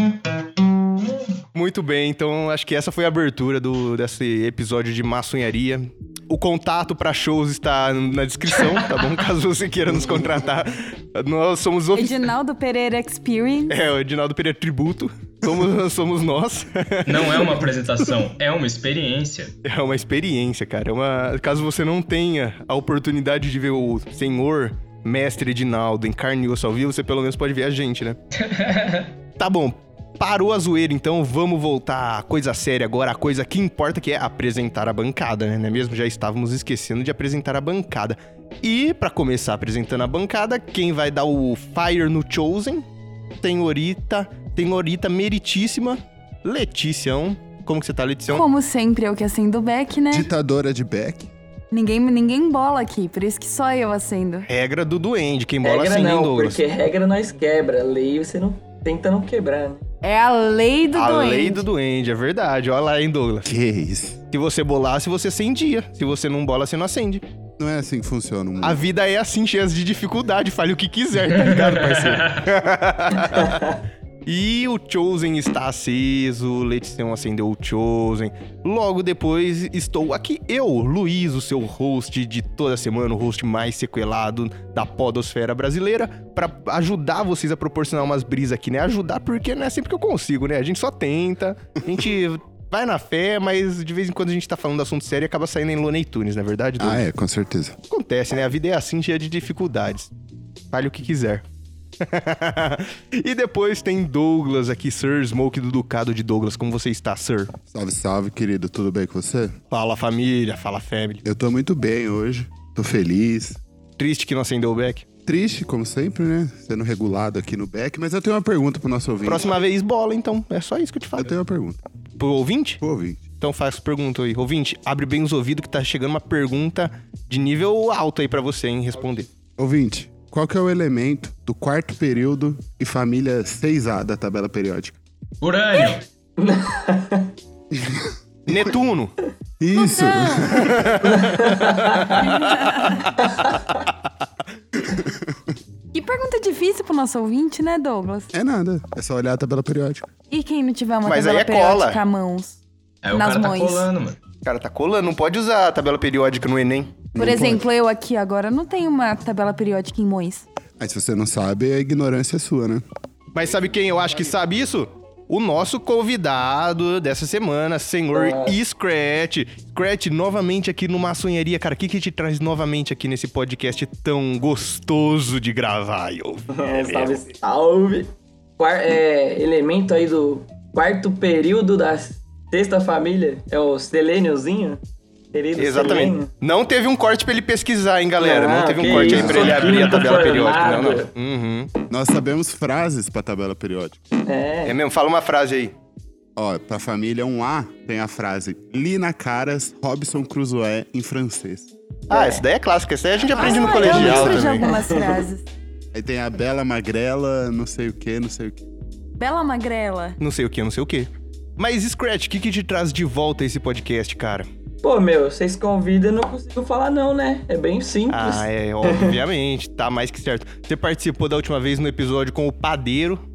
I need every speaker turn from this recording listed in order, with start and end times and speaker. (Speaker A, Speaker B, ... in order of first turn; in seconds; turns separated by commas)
Speaker A: 1.5-12.2, Speaker B: 8.7-9.0, Speaker C: 11.9-13.8, Speaker A: 13.7-17.6, Speaker B: 17.0-19.5, Speaker A: 19.6-28.2, Speaker B: 28.3-29.1, Speaker A: 29.4-42.8, Speaker A: 43.4-48.5, Speaker C: 48.3-50.3, Speaker D: 50.1-51.3, Speaker C: 51.7-54.5, Speaker A: 54.5-56.6, Speaker E: 55.6-59.8, Speaker C: 60.0-61.6, Speaker A: 60.9-63.5, Speaker D: 63.4-64.2, Speaker A: 64.3-67.2, Speaker D: 67.6-68.8, Speaker A: 68.6-73.7, Speaker B: 71.3-72.5, Speaker A: 74.2-97.1, Speaker D: 96.8-97.8, Speaker A: 97.9-100.1, Speaker A: 100.7-101.4, Speaker A: 102.0-107.5, Speaker D: 107.7-109.5, Speaker A: 109.7-111.2, Speaker D: 111.2-113.6, Speaker A: 114.0-115.0, Speaker D: 115.2-119.5, Speaker A: 119.2-121.3, Speaker D: 121.2-121.8, Speaker A: 122.2-122.8, Speaker D: 122.8-123.2, Speaker A: 123.4-129.3, Speaker D: 129.6-134.9, Speaker B: 135.4-136.0, Speaker E: 136.4-137.3, Speaker D: 137.7-138.6, Speaker A: 138.5-139.1, Speaker D: 139.6-141.2, Speaker C: 139.7-140.7, Speaker A: 140.7-142.0, Speaker E: 141.0-142.2, Speaker C: 142.2-143.3, Speaker D: 144.9-145.3, Speaker C: 145.9-148.3, Speaker D: 148.3-150.1, Speaker C: 150.3-152.6, Speaker A: 151.0-152.0, Speaker B: 153.0-154.2, Speaker C: 153.1-153.9, Speaker A: 154.4-157.0, Speaker D: 157.1-157.6, Speaker C: 157.2-160.4, Speaker D: 160.8-162.8, Speaker A: 163.3-177.2, Speaker E: 168.1-168.6, Speaker E: 176.5-184.8, Speaker E: 185.3-186.3, Speaker A: 185.6-191.7, Speaker E: 188.2-191.1, Speaker D: 188.8-189.6, Speaker B: 189.3-190.4, Speaker D: 191.9-194.0, Speaker E: 194.3-194.7, Speaker A: 194.6-195.7, Speaker D: 196.3-201.7, Speaker A: 202.1-204.7, Speaker C: 203.3-205.5, Speaker D: 203.4-204.6, Speaker E: 203.8-205.2, Speaker D: 205.9-208.7, Speaker C: 209.2-210.2, Speaker A: 210.2-214.5, Speaker E: 214.8-219.2, Speaker A: 218.1-223.2